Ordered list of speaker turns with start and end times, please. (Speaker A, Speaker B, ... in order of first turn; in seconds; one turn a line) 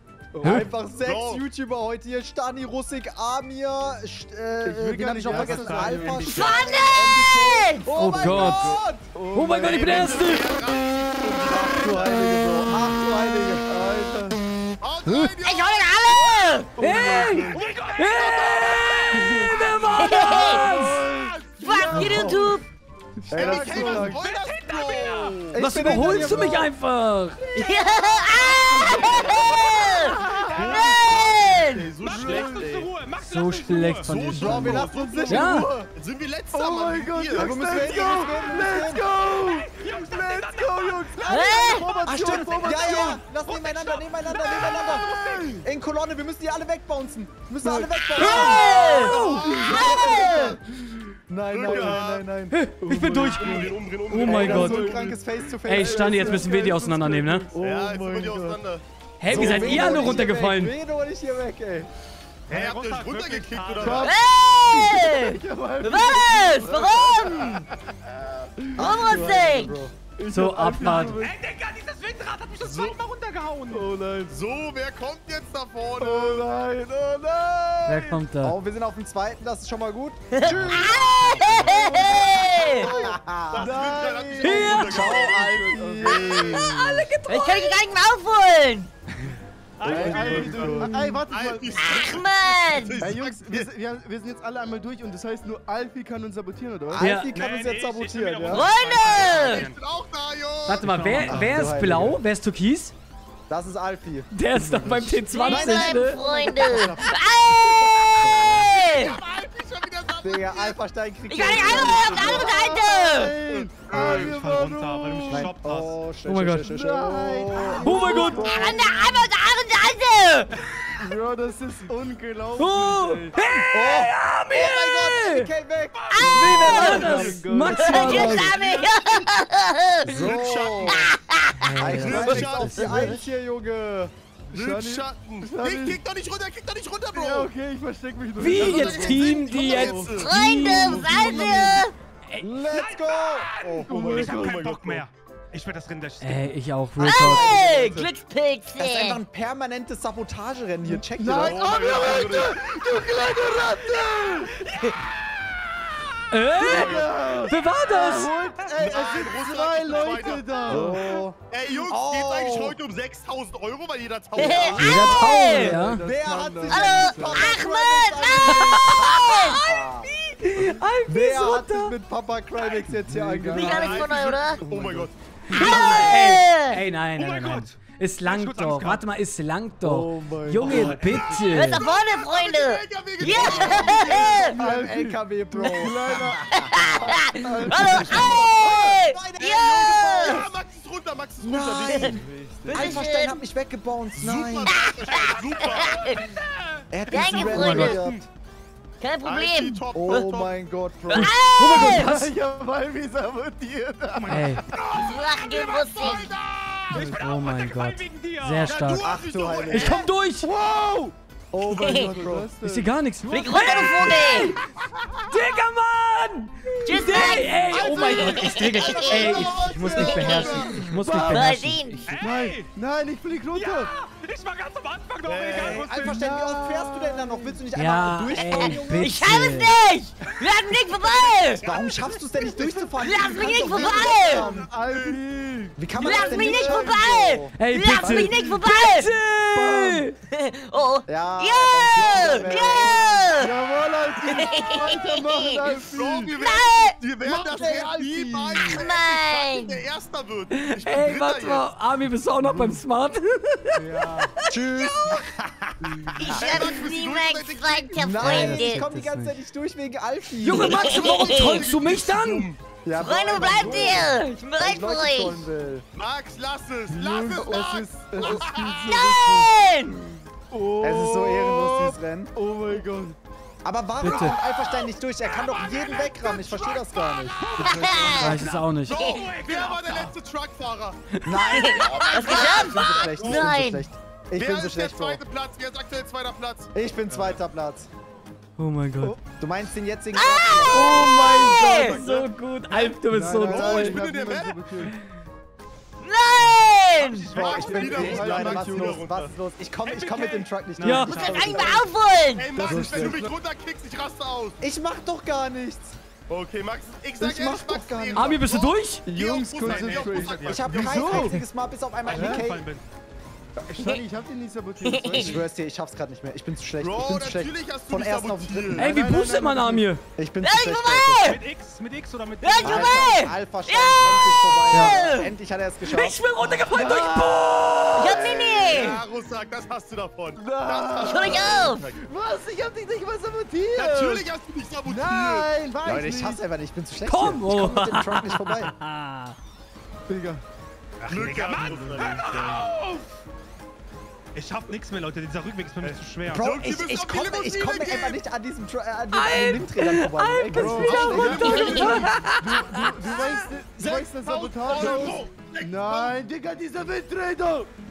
Speaker A: 0.3-0.7
Speaker B: 0.4-0.7
Speaker C: 0.4-9.1
Speaker D: 1.0-1.4
Speaker A: 4.6-6.6
Speaker E: 5.3-6.3
Speaker F: 6.2-8.0
Speaker B: 7.9-8.8
Speaker A: 8.1-10.4
Speaker B: 9.3-10.5
Speaker D: 9.6-12.4
Speaker C: 11.3-13.7
Speaker A: 13.7-14.4
Speaker D: 14.8-16.2
Speaker B: 15.1-15.3
Speaker F: 15.4-16.7
Speaker A: 16.8-17.6
Speaker B: 16.8-21.0
Speaker D: 17.2-19.1
Speaker E: 17.5-20.1
Speaker A: 19.2-19.6
Speaker F: 19.9-20.7
Speaker A: 20.6-22.4
Speaker F: 21.6-22.7
Speaker C: 21.9-22.5
Speaker A: 23.2-24.2
Speaker C: 23.3-24.2
Speaker D: 23.3-25.6
Speaker E: 24.0-25.6
Speaker C: 25.5-26.7
Speaker B: 25.6-27.5
Speaker F: 27.5-31.9
Speaker D: 28.4-32.9
Speaker E: 28.4-34.1
Speaker A: 30.1-30.6
Speaker A: 32.0-32.7
Speaker B: 33.2-35.7
Speaker D: 34.0-38.0
Speaker C: 34.3-35.9
Speaker A: 34.5-35.9
Speaker A: 36.5-43.2
Speaker C: 37.3-39.0
Speaker E: 39.2-41.9
Speaker F: 41.3-41.9
Speaker C: 41.6-50.6
Speaker E: 42.4-45.6
Speaker A: 44.5-45.7
Speaker A: 47.6-48.5
Speaker F: 48.1-50.6
Speaker B: 48.2-49.4
Speaker D: 49.0-50.1
Speaker A: 49.1-51.0
Speaker C: 51.3-52.6
Speaker D: 51.5-52.2
Speaker A: 51.7-52.0
Speaker B: 52.5-54.9
Speaker A: 52.8-57.6
Speaker D: 53.4-55.0
Speaker C: 54.2-56.5
Speaker B: 55.6-57.5
Speaker C: 57.5-58.6
Speaker D: 57.5-60.3
Speaker B: 59.2-60.7
Speaker C: 59.2-61.9
Speaker A: 59.4-59.8
Speaker E: 62.5-64.2
Speaker D: 62.5-64.1
Speaker A: 63.8-67.7
Speaker F: 64.0-67.6
Speaker A: 68.6-68.9
Speaker C: 68.8-69.9
Speaker F: 68.8-69.8
Speaker A: 70.2-71.4
Speaker B: 70.3-71.2
Speaker E: 71.1-73.9
Speaker D: 72.6-73.0
Speaker A: 73.7-74.3
Speaker D: 74.3-76.5
Speaker A: 76.0-78.2
Speaker B: 77.8-78.5
Speaker C: 78.4-81.1
Speaker F: 80.3-82.9
Speaker D: 80.4-85.5
Speaker C: 82.0-83.8
Speaker A: 83.5-86.6
Speaker B: 84.4-85.2
Speaker C: 84.6-86.6
Speaker D: 86.1-86.5
Speaker F: 86.2-86.6
Speaker B: 86.4-87.8
Speaker F: 87.3-88.9
Speaker E: 89.8-90.9
Speaker D: 89.8-93.7
Speaker A: 89.8-91.8
Speaker C: 89.9-91.2
Speaker F: 91.8-93.0
Speaker A: 93.0-97.0
Speaker C: 96.9-98.7
Speaker B: 97.0-97.3
Speaker E: 97.3-99.8
Speaker F: 98.5-99.7
Speaker D: 98.9-100.9
Speaker B: 100.7-102.9
Speaker E: 100.7-101.6
Speaker C: 101.2-102.2
Speaker C: 103.5-107.2
Speaker B: 104.3-106.2
Speaker F: 105.3-109.2
Speaker D: 108.2-110.8
Speaker C: 108.2-108.8
Speaker C: 110.2-112.8
Speaker F: 111.3-113.4
Speaker D: 111.4-112.5
Speaker A: 111.7-115.5
Speaker D: 113.8-114.7
Speaker E: 113.9-116.0
Speaker C: 115.3-119.0
Speaker B: 116.2-116.7
Speaker A: 116.5-118.7
Speaker B: 117.8-118.5
Speaker F: 118.4-120.5
Speaker A: 120.9-123.3
Speaker B: 122.5-125.5
Speaker C: 123.7-127.3
Speaker E: 125.9-127.2
Speaker F: 126.1-130.3
Speaker D: 126.2-127.2
Speaker B: 126.3-128.6
Speaker A: 126.3-128.8
Speaker C: 130.0-131.1
Speaker D: 130.2-131.1
Speaker F: 130.9-131.7
Speaker B: 131.6-133.2
Speaker C: 131.8-134.1
Speaker D: 131.9-133.1
Speaker A: 131.9-133.0
Speaker A: 134.5-136.0
Speaker D: 134.5-137.5
Speaker A: 137.1-141.7
Speaker B: 138.4-141.7
Speaker D: 138.4-140.3
Speaker F: 140.1-141.9
Speaker C: 141.4-141.7
Speaker C: 142.4-144.4
Speaker E: 142.7-146.6
Speaker A: 143.9-144.5
Speaker D: 143.9-145.0
Speaker B: 146.2-147.6
Speaker C: 147.0-148.1
Speaker F: 147.0-149.2
Speaker C: 148.8-151.7
Speaker A: 150.9-154.6
Speaker D: 151.3-152.7
Speaker E: 154.7-155.7
Speaker B: 156.3-158.3
Speaker A: 156.6-161.2
Speaker D: 156.6-157.4
Speaker D: 158.8-160.9
Speaker C: 160.6-162.8
Speaker D: 161.5-165.4
Speaker F: 164.3-165.8
Speaker B: 164.8-166.0
Speaker C: 164.9-170.1
Speaker A: 165.4-167.5
Speaker F: 166.7-169.8
Speaker B: 168.6-169.4
Speaker B: 170.1-171.9
Speaker C: 171.1-174.1
Speaker A: 172.9-174.0
Speaker D: 173.5-175.1
Speaker F: 173.5-174.6
Speaker A: 174.6-175.1
Speaker B: 175.5-181.8
Speaker F: 175.5-176.8
Speaker E: 177.2-179.0
Speaker C: 179.8-181.0
Speaker E: 180.6-181.5
Speaker D: 180.8-184.6
Speaker F: 181.5-184.6
Speaker C: 183.3-190.5
Speaker A: 184.6-186.6
Speaker F: 185.6-185.9
Speaker F: 186.5-190.5
Speaker A: 187.4-188.3
Speaker D: 187.8-192.2
Speaker C: 191.4-194.8
Speaker F: 191.8-192.1
Speaker A: 192.1-193.1
Speaker F: 192.7-193.4
Speaker D: 194.2-196.2
Speaker F: 194.6-196.2
Speaker E: 195.1-196.9
Speaker C: 196.9-198.2
Speaker F: 197.1-198.0
Speaker B: 197.3-198.0
Speaker E: 197.7-198.2
Speaker F: 199.0-200.3
Speaker D: 199.2-200.5
Speaker C: 199.9-201.3
Speaker F: 201.1-202.2
Speaker B: 201.1-202.3
Speaker A: 201.7-204.7
Speaker E: 204.2-204.9
Speaker B: 204.3-204.6
Speaker D: 204.7-207.1
Speaker F: 204.9-206.3
Speaker E: 206.9-208.9
Speaker B: 206.9-209.1
Speaker A: 206.9-207.2
Speaker D: 208.6-210.1
Speaker C: 209.0-210.0
Speaker B: 209.7-210.5
Speaker A: 210.4-211.1
Speaker C: 211.5-212.5
Speaker F: 211.7-212.1
Speaker A: 211.9-213.2
Speaker B: 212.6-214.1
Speaker F: 213.3-214.6
Speaker D: 214.2-215.2
Speaker B: 215.3-222.2
Speaker F: 216.8-222.1
Speaker D: 217.1-220.8
Speaker C: 217.8-220.2
Speaker A: 220.9-221.6
Speaker E: 222.1-222.7
Speaker A: 222.2-223.9
Speaker E: 223.5-226.3
Speaker D: 225.2-226.1
Speaker C: 225.5-229.6
Speaker A: 226.1-227.5
Speaker B: 227.7-229.8
Speaker F: 228.3-231.7
Speaker E: 230.3-231.9
Speaker C: 231.6-234.7
Speaker A: 232.4-236.9
Speaker F: 233.0-234.5
Speaker D: 233.5-235.2
Speaker C: 235.8-237.6
Speaker F: 235.9-239.1
Speaker B: 237.6-240.1
Speaker A: 238.0-238.5
Speaker A: 239.5-240.1
Speaker F: 240.2-243.5
Speaker C: 241.1-243.3
Speaker D: 241.9-242.4
Speaker A: 242.0-246.3
Speaker F: 244.2-245.7
Speaker D: 245.9-251.7
Speaker F: 246.3-247.0
Speaker C: 247.2-248.8
Speaker F: 248.7-249.8
Speaker B: 250.5-253.8
Speaker A: 252.4-252.8
Speaker C: 253.8-256.7
Speaker F: 254.4-255.2
Speaker F: 256.2-258.9
Speaker D: 256.3-258.2
Speaker C: 257.9-261.0
Speaker B: 258.2-259.4
Speaker B: 260.4-262.5
Speaker F: 260.5-261.7
Speaker D: 260.8-262.6
Speaker C: 262.8-265.8
Speaker F: 262.9-265.4
Speaker D: 263.4-263.9
Speaker A: 263.4-264.0
Speaker D: 265.9-268.9
Speaker A: 266.9-269.6
Speaker F: 268.2-270.0
Speaker A: 270.5-273.1
Speaker C: 270.8-272.3
Speaker C: 273.6-277.5
Speaker B: 274.0-274.4
Speaker D: 274.5-277.7
Speaker E: 277.4-280.2
Speaker A: 277.5-278.4
Speaker F: 277.6-278.4
Speaker B: 278.2-279.0
Speaker D: 278.9-283.6
Speaker F: 278.9-279.3
Speaker C: 281.2-285.2
Speaker F: 281.5-283.8
Speaker D: 284.3-286.7
Speaker C: 286.7-287.9
Speaker B: 288.6-289.2
Speaker C: 289.4-291.4
Speaker F: 290.1-292.0
Speaker D: 290.4-294.9
Speaker B: 290.7-294.0
Speaker A: 293.0-294.9
Speaker F: 296.0-297.4
Speaker E: 297.0-298.2
Speaker D: 297.3-299.3
Speaker C: 297.3-301.9
Speaker A: 297.4-299.0
Speaker E: 299.8-301.8
Speaker B: 300.8-301.4
Speaker F: 301.1-302.6
Speaker D: 302.3-304.6
Speaker A: 302.5-303.3
Speaker C: 302.6-303.3
Speaker C: 304.6-305.9
Speaker D: 306.3-311.4
Speaker C: 307.2-308.4
Speaker B: 308.1-309.0
Speaker A: 309.0-311.4
Speaker E: 309.6-310.9
Speaker C: 310.4-312.7
Speaker E: 312.1-312.8
Speaker A: 312.1-312.4
Speaker A: 313.6-315.4
Speaker F: 314.8-315.3
Speaker C: 315.1-318.9
Speaker D: 316.8-318.9
Speaker A: 318.8-319.9
Speaker B: 318.8-320.0
Speaker C: 320.1-321.3
Speaker F: 320.4-321.4
Speaker E: 321.2-323.2
Speaker F: 322.4-324.0
Speaker C: 322.6-326.6
Speaker D: 324.0-324.6
Speaker E: 324.0-324.6
Speaker F: 324.6-325.3
Speaker B: 324.7-325.0
Speaker B: 325.8-328.5
Speaker A: 326.7-328.8
Speaker F: 328.0-329.0
Speaker D: 328.7-331.9
Speaker A: 330.4-334.3
Speaker F: 331.0-331.8
Speaker D: 333.7-335.5
Speaker A: 334.8-336.4
Speaker C: 335.8-338.7
Speaker B: 337.1-339.3
Speaker A: 340.1-340.4
Speaker E: 341.0-343.1
Speaker D: 341.1-342.7
Speaker E: 344.3-346.6
Speaker D: 345.8-348.2
Speaker C: 346.3-351.9
Speaker B: 349.1-352.8
Speaker A: 350.5-357.7
Speaker D: 350.8-356.1
Speaker F: 351.4-352.4